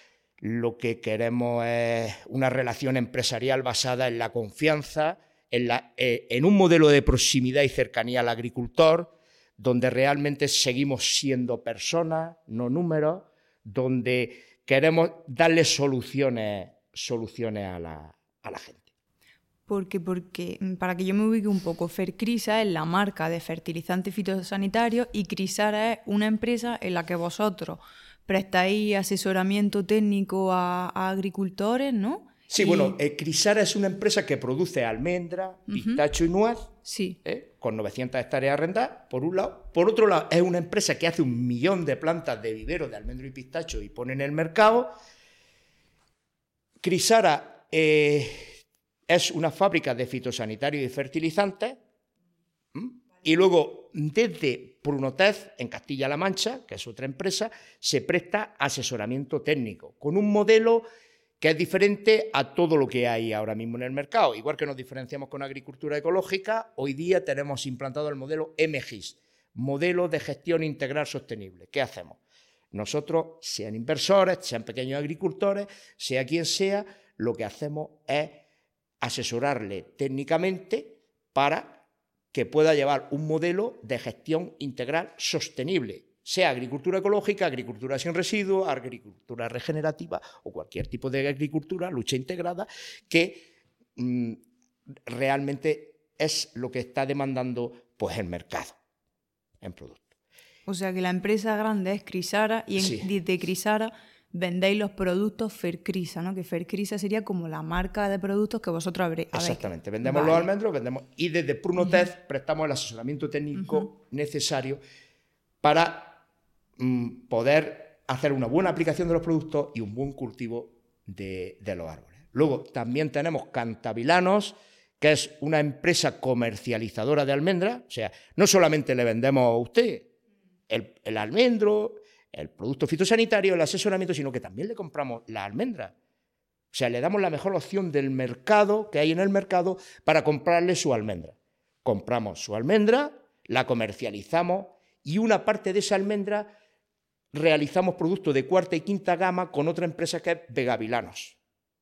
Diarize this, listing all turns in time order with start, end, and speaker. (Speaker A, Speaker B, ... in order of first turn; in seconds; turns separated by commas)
Speaker A: 0.4-18.9, Speaker B: 19.7-33.0, Speaker A: 32.5-44.9, Speaker B: 35.7-36.0, Speaker B: 36.8-37.2, Speaker A: 46.8-51.8, Speaker A: 52.7-60.8, Speaker A: 61.4-72.2, Speaker A: 72.7-78.4, Speaker A: 79.0-93.4, Speaker A: 94.0-94.4, Speaker A: 95.1-98.8, Speaker A: 99.6-100.1, Speaker B: 100.7-110.5, Speaker A: 102.8-103.1, Speaker A: 109.3-114.8, Speaker B: 111.8-112.1, Speaker B: 113.6-113.8, Speaker A: 115.6-116.2, Speaker A: 116.8-130.1, Speaker A: 130.7-135.9, Speaker A: 136.7-146.5, Speaker A: 147.3-151.4